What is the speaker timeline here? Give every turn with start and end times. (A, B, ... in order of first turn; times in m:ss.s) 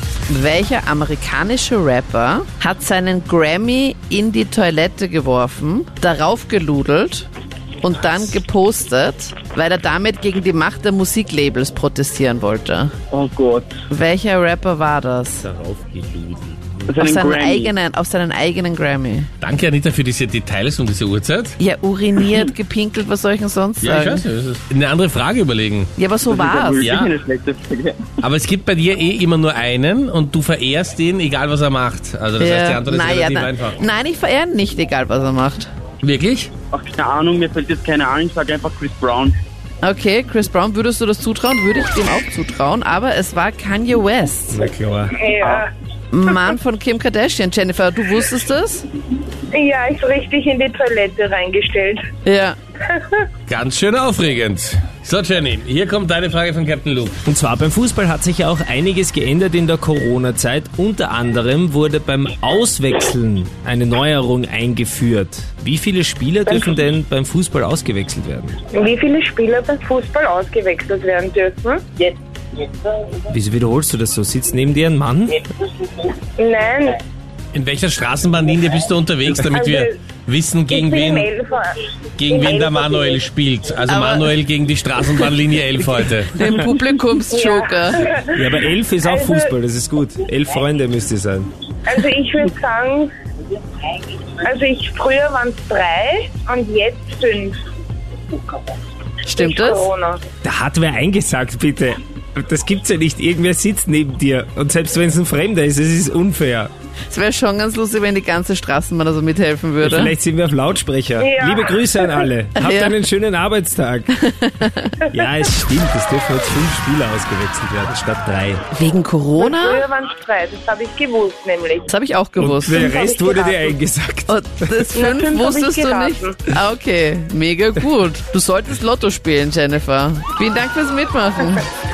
0:00.3-0:07.3 A
0:07.8-0:12.9 A
0:13.1-0:13.7 B
0:13.9-0:15.5 A
0:15.4-0:16.9 C
0:16.9-0:17.7 B
0:17.0-0:19.3 A
0:19.4-0:21.6 D
0:21.6-0:24.2 A
0:23.8-0:25.9 D
0:26.0-0:26.8 A
0:26.3-0:28.0 B
0:26.8-0:27.1 D
0:28.2-0:33.8 D
0:32.4-0:35.7 A
0:36.0-0:36.5 D
0:36.7-0:39.4 B
0:39.8-0:44.6 A
0:44.5-0:45.2 C
0:45.1-0:45.7 E
0:46.1-0:48.8 A
0:49.5-0:52.0 E
0:52.2-0:52.6 A
0:53.5-0:57.2 D
0:57.2-1:08.6 C
1:06.5-1:06.7 E
1:08.7-1:12.1 E
1:13.3-1:15.4 C
1:16.4-1:17.0 E
1:17.5-1:21.3 D
1:19.5-1:20.0 E
1:20.7-1:21.8 E
1:22.2-1:26.4 D
1:23.9-1:24.3 A
1:26.3-1:28.0 A
1:27.3-1:28.4 E
1:28.3-1:31.5 C
1:29.0-1:29.5 E
1:31.8-1:33.1 E
1:34.4-1:37.6 E
1:39.2-1:39.9 A
1:39.3-1:40.2 E
1:40.4-1:46.7 C
1:47.1-1:50.1 A
1:49.8-1:54.2 C
1:51.2-1:52.3 E
1:52.6-1:52.9 A
1:54.2-1:55.0 A
1:55.1-1:58.6 C
1:58.7-1:59.8 A
1:59.4-2:01.8 E
2:01.9-2:02.8 A
2:02.4-2:04.3 C
2:02.8-2:03.7 E
2:04.3-2:11.6 A
2:04.9-2:06.4 E